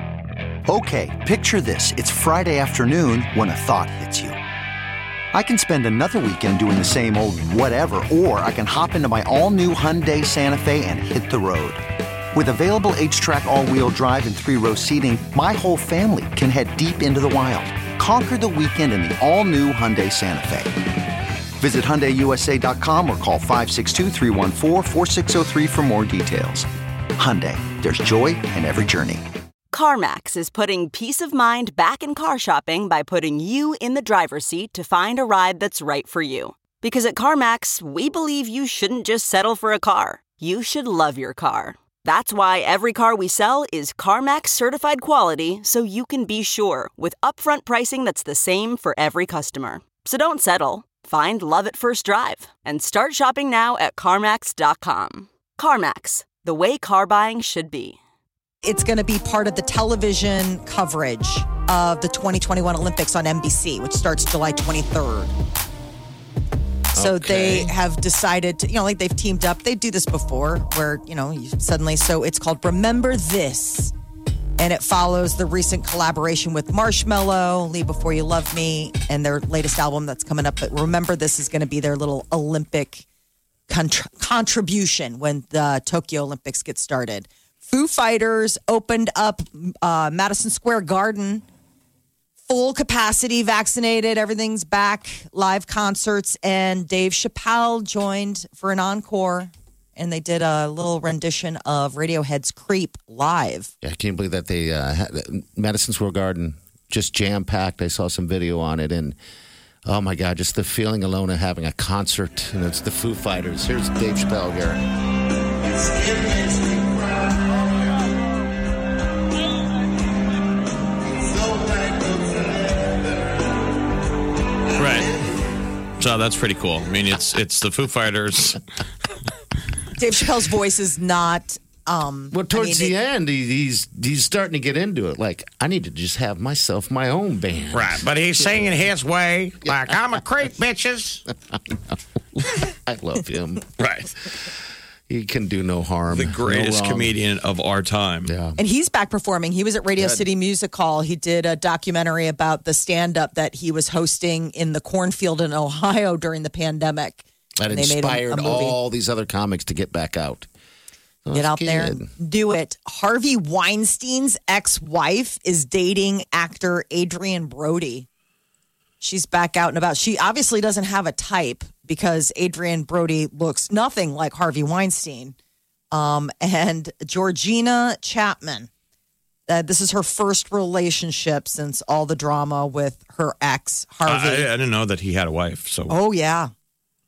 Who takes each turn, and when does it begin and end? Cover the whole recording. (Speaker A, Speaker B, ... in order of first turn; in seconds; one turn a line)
Speaker A: 0.7-4.4
Speaker A: 5.3-20.7
Speaker A: 21.6-29.2
Speaker B: 29.7-58.0
Speaker C: 58.6-65.3
Speaker D: 66.9-67.7
Speaker C: 67.0-73.9
Speaker C: 74.6-83.0
Speaker C: 83.7-91.4
Speaker C: 92.5-103.7
Speaker D: 103.8-109.2
Speaker D: 109.8-114.8
Speaker E: 124.8-125.1
Speaker E: 126.0-128.6
Speaker C: 130.0-132.9
Speaker D: 132.3-138.7
Speaker E: 137.7-141.2
Speaker D: 139.7-139.9
Speaker D: 142.4-143.7
Speaker E: 143.8-144.1
Speaker D: 145.1-147.2
Speaker E: 146.1-148.3
Speaker D: 148.2-148.6
Speaker C: 148.6-158.8
Speaker D: 150.0-150.3
Speaker D: 157.6-160.5
Speaker D: 161.2-162.1
Speaker C: 161.3-168.1
Speaker C: 169.0-175.3
Speaker C: 175.9-178.7
Speaker C: 179.5-184.5
Speaker E: 184.1-186.0
Speaker C: 185.9-186.5